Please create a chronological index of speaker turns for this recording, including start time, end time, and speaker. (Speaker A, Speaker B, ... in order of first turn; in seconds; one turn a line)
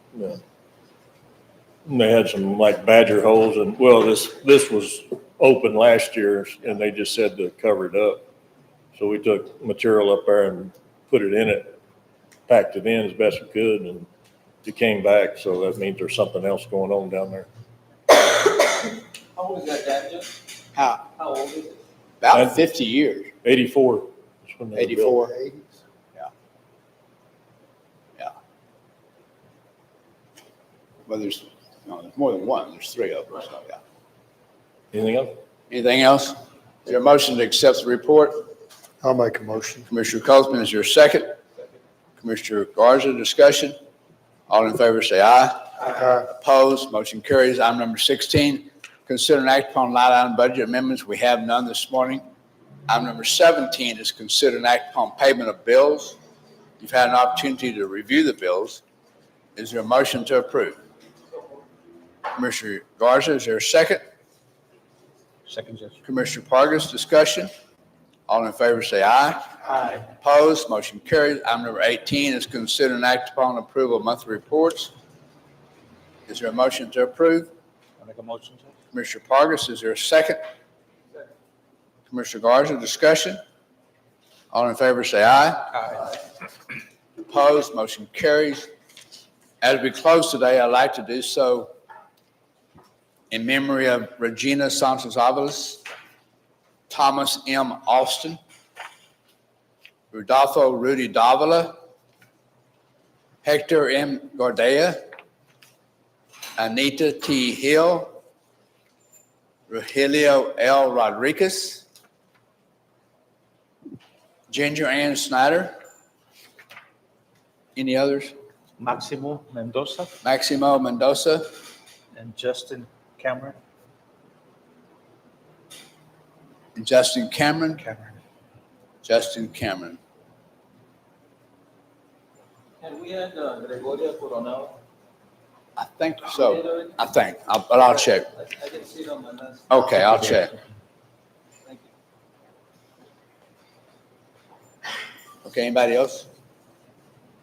Speaker A: 0.1-0.4
Speaker A: 1.8-8.2
Speaker A: 8.9-11.8
Speaker A: 12.5-14.1
Speaker A: 14.6-17.5
Speaker B: 19.4-20.4
Speaker C: 20.7-21.0
Speaker B: 21.2-21.8
Speaker C: 22.2-23.3
Speaker A: 22.3-22.6
Speaker A: 23.4-25.1
Speaker C: 24.8-25.1
Speaker D: 24.8-25.8
Speaker C: 31.1-33.8
Speaker A: 34.9-35.3
Speaker C: 35.7-38.5
Speaker D: 39.0-39.9
Speaker C: 39.9-41.4
Speaker C: 42.2-43.7
Speaker C: 44.5-52.2
Speaker D: 46.0-46.2
Speaker C: 52.9-56.2
Speaker C: 56.8-58.8
Speaker C: 59.5-60.8
Speaker C: 62.3-64.0
Speaker E: 65.5-65.9
Speaker C: 66.0-67.5
Speaker C: 68.3-74.9
Speaker C: 76.3-77.5
Speaker E: 78.0-78.7
Speaker C: 78.9-80.4
Speaker C: 82.1-83.4
Speaker C: 84.5-86.1
Speaker C: 87.2-88.7
Speaker C: 89.6-91.7
Speaker C: 93.3-95.8
Speaker C: 96.9-98.4
Speaker C: 100.1-101.7
Speaker C: 103.4-105.0
Speaker C: 106.6-108.2
Speaker C: 109.7-111.8
Speaker C: 114.5-115.7
Speaker C: 117.8-118.3
Speaker E: 118.8-120.2
Speaker C: 120.2-121.4
Speaker E: 122.1-123.6
Speaker C: 126.7-127.8
Speaker E: 127.8-128.2
Speaker C: 129.0-130.0
Speaker B: 132.8-134.8
Speaker C: 135.8-138.3
Speaker B: 138.4-139.6
Speaker C: 139.7-140.6
Speaker C: 145.4-146.3